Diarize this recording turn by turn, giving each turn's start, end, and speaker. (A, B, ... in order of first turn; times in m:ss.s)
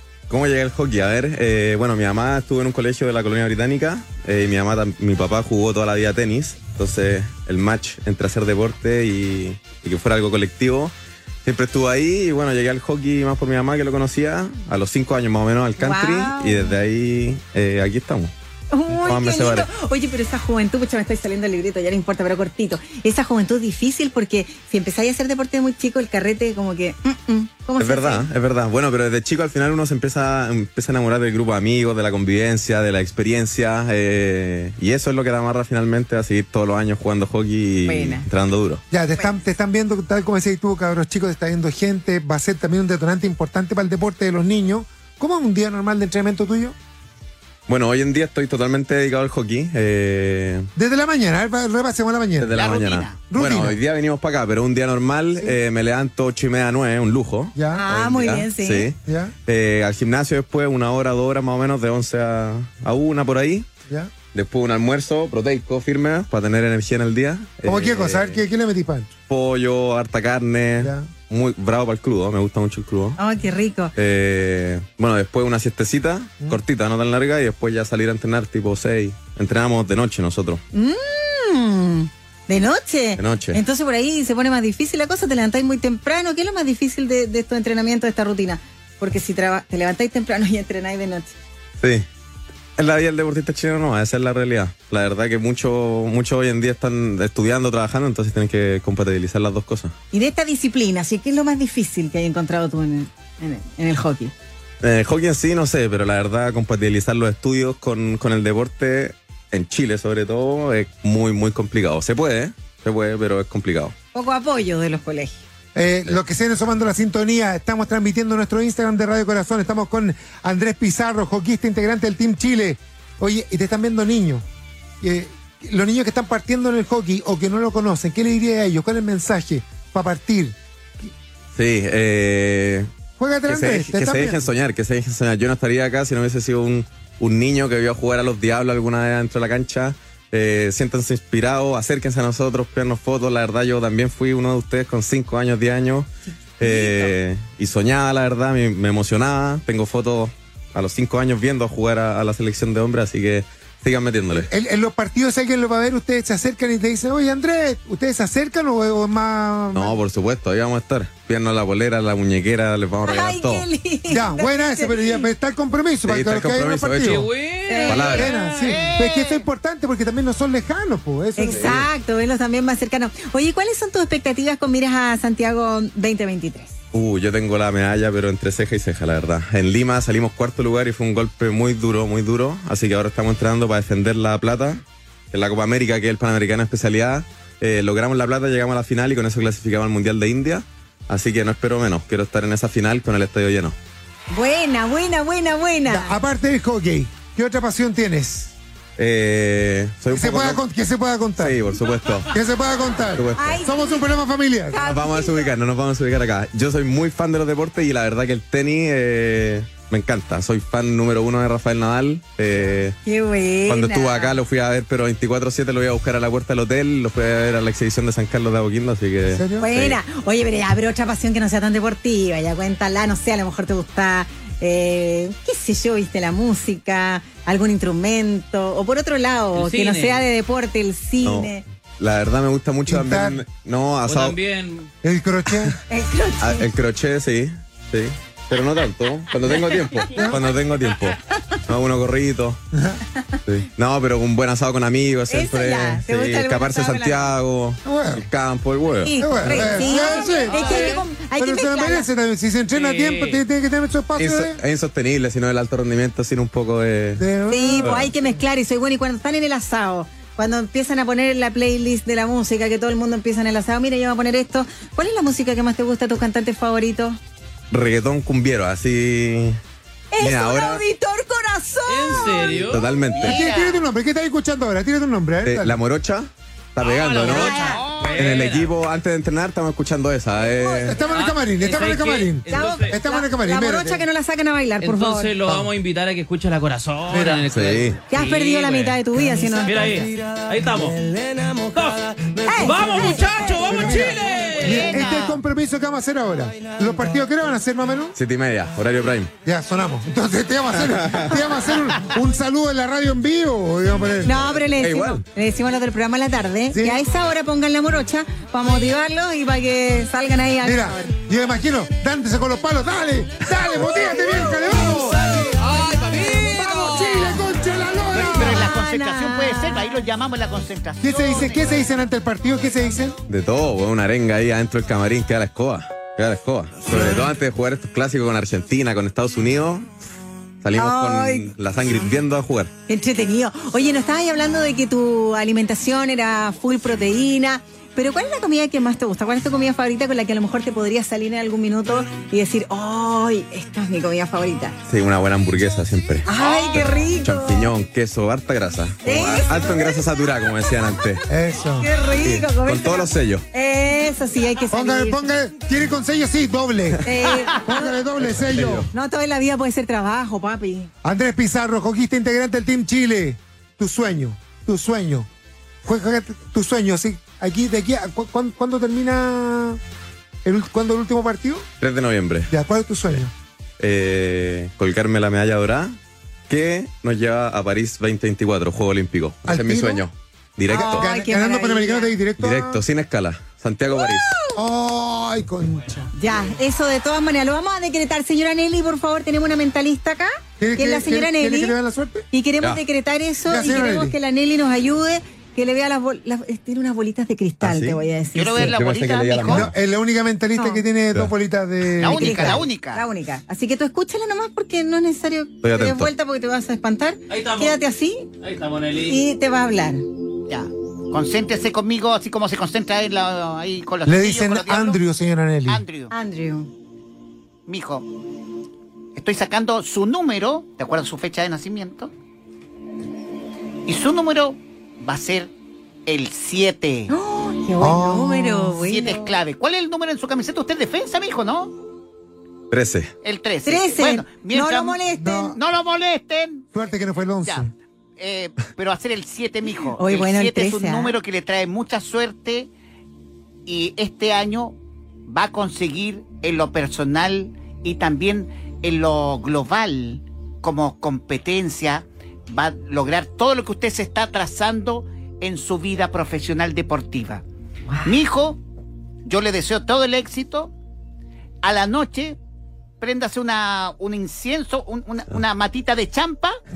0:00.3-0:10.9 A
0:11.4-0:18.3 A
0:15.8-0:16.8 B
0:18.7-0:28.3 B
0:18.9-0:19.7 A
0:27.8-0:38.8 A
0:37.9-0:38.3 B
0:38.9-0:46.8 C
0:47.7-0:50.7 A
0:50.8-0:52.5 C
0:52.4-1:03.7 A
0:52.5-0:53.3 D
0:53.3-0:53.8 C
0:57.6-0:57.8 C
0:57.7-0:58.9 B
0:59.1-0:59.3 C
1:04.3-1:08.4 A
1:07.6-1:09.1 C
1:09.3-1:13.2 A
1:10.8-1:11.1 C
1:13.2-1:13.9 B
1:14.0-1:20.6 A
1:20.7-1:31.4 B
1:23.2-1:23.6 A
1:31.8-1:32.1 A
1:32.8-1:39.9 A
1:40.1-1:44.3 B
1:44.8-1:53.9 A
1:54.1-1:55.4 B
1:55.8-2:04.4 C
2:05.0-2:11.1 C
2:11.6-2:12.9 A
2:13.2-2:14.5 C
2:13.5-2:26.1 A
2:26.4-2:27.1 B
2:26.6-2:34.5 A
2:34.3-2:39.9 C
2:39.7-2:43.7 A
2:43.0-2:45.3 B
2:44.1-2:47.3 C
2:46.0-2:47.3 A
2:47.0-2:48.7 E
2:47.7-2:48.2 B
2:47.9-2:48.3 A
2:48.0-2:51.8 C
2:48.6-2:49.4 D
2:51.4-2:56.7 B
2:51.5-2:51.9 A
2:56.9-3:13.8 A
3:14.3-3:16.2 B
3:15.8-3:18.6 C
3:19.0-3:20.6 A
3:20.1-3:21.6 C
3:21.4-3:22.3 A
3:22.3-3:24.8 C
3:23.2-3:23.6 A
3:23.4-3:24.1 B
3:24.7-3:25.5 B
3:24.8-3:33.0 A
3:33.0-3:34.4 B
3:33.7-3:40.0 A
3:39.3-3:39.7 C
3:39.6-3:51.6 B
3:49.5-3:50.2 E
3:51.2-3:54.4 A
3:52.9-3:53.4 C
3:54.0-3:54.9 E
3:55.0-3:55.8 C
3:55.9-3:56.7 B
3:56.4-4:02.6 A
4:00.1-4:00.4 C
4:02.7-4:03.0 C
4:03.5-4:09.2 A
4:05.3-4:07.4 B
4:07.8-4:08.3 C
4:09.0-4:12.1 B
4:09.2-4:14.6 C
4:09.6-4:11.0 E
4:12.7-4:13.4 E
4:14.2-4:17.2 A
4:17.2-4:18.3 C
4:17.5-4:27.2 B
4:17.8-4:18.1 A
4:27.7-4:29.6 A
4:30.1-4:32.8 B
4:30.2-4:30.8 A
4:31.9-4:32.9 E
4:32.7-4:33.4 A
4:33.1-4:33.8 D
4:33.2-4:35.8 C
4:35.4-4:37.5 A
4:36.8-4:38.3 D
4:37.2-4:38.7 E
4:37.3-4:37.9 B
4:38.2-4:41.0 A
4:40.4-4:41.1 B
4:40.9-4:44.0 C
4:41.1-4:43.0 E
4:42.5-4:45.4 B
4:44.8-4:49.0 E
4:47.1-4:47.5 C
4:47.5-4:48.0 A
4:48.1-4:50.1 B
4:49.6-4:54.9 E
4:52.4-4:54.0 B
4:53.6-4:58.2 C
4:54.6-4:55.4 D
4:58.2-4:59.3 A
4:59.4-5:04.4 C
5:00.9-5:01.3 A
5:04.2-5:11.1 B
5:04.8-5:05.2 A
5:06.7-5:07.0 C
5:10.6-5:18.7 C
5:15.6-5:17.2 E
5:18.1-5:21.9 D
5:18.5-5:19.9 B
5:21.0-5:23.2 C
5:23.3-5:29.9 A
5:30.6-5:32.7 A
5:30.7-5:31.5 B
5:32.9-5:44.8 B
5:44.9-5:51.2 A
5:46.3-5:47.7 B
5:46.4-5:46.7 D
5:49.0-5:49.6 B
5:51.3-5:51.9 C
5:51.8-5:55.2 B
5:52.2-5:53.4 A
5:54.7-5:58.9 C
5:57.0-5:57.9 B
5:58.2-5:58.9 A
5:58.9-6:00.9 B
6:01.0-6:05.3 C
6:05.8-6:09.8 C
6:10.4-6:11.7 C
6:11.8-6:12.5 A
6:12.5-6:13.3 C
6:13.8-6:16.0 A
6:16.5-6:21.1 A
6:19.5-6:20.0 C
6:20.7-6:22.1 B
6:20.8-6:22.8 C
6:22.4-6:24.4 A
6:24.0-6:24.6 B
6:24.5-6:26.1 C
6:26.2-6:31.8 B
6:30.6-6:32.3 C
6:32.3-6:38.7 B
6:33.5-6:34.2 C
6:37.6-6:38.0 A
6:38.4-6:39.7 D
6:38.6-6:39.7 A
6:39.4-6:42.6 C
6:40.6-6:40.8 B
6:42.0-6:43.0 D
6:42.1-6:48.3 B
6:45.6-6:46.1 A
6:47.3-6:47.8 E
6:48.4-6:49.2 E
6:49.0-6:50.0 B
6:50.5-6:55.0 D
6:54.0-6:55.8 C
6:55.7-6:56.1 D
6:56.1-6:56.7 B
6:57.7-6:58.2 D
6:59.2-7:02.1 D
7:03.9-7:05.5 D
7:06.1-7:07.1 D
7:07.1-7:09.3 B
7:07.8-7:08.7 C
7:08.7-7:11.7 D
7:12.7-7:13.1 A
7:13.2-7:22.7 D
7:13.6-7:15.5 B
7:15.1-7:15.6 C
7:16.7-7:17.7 C
7:20.0-7:21.2 B
7:23.7-7:37.4 D
7:37.9-7:38.2 B
7:38.0-7:38.6 D
7:39.2-7:40.7 D
7:41.6-7:42.4 D
7:43.0-7:46.6 D